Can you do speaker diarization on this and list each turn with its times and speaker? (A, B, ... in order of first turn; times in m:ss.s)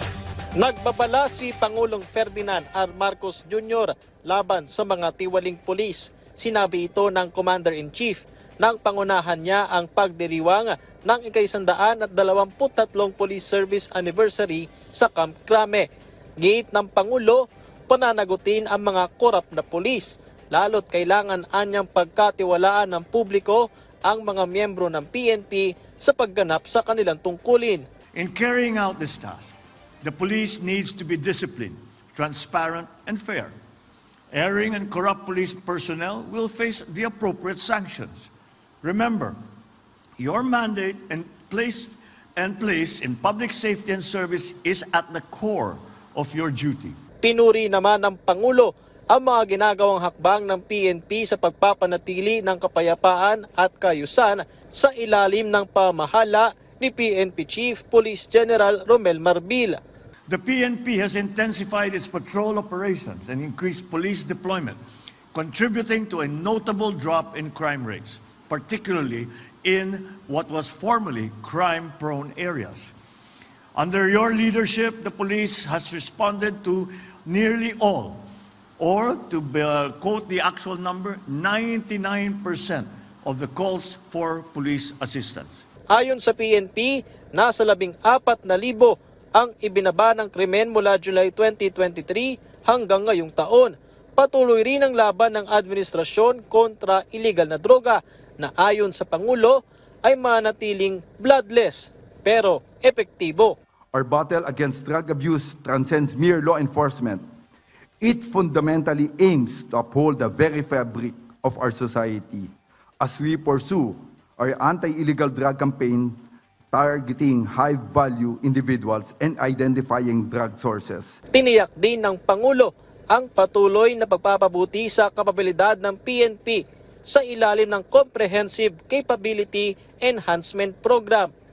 0:00.6-0:15.9 A
0:16.4-0:27.8 A
0:28.1-0:33.5 B
0:34.3-0:38.3 B
0:38.8-0:39.4 B
0:40.2-0:47.0 B
0:47.2-0:59.8 A
1:00.3-1:04.8 B
1:05.3-1:12.9 B
1:13.8-1:18.3 B
1:18.8-1:25.6 B
1:25.9-1:43.6 A
1:43.9-1:47.2 C
1:48.0-1:56.2 C
1:56.7-2:01.2 C
2:01.3-2:11.3 A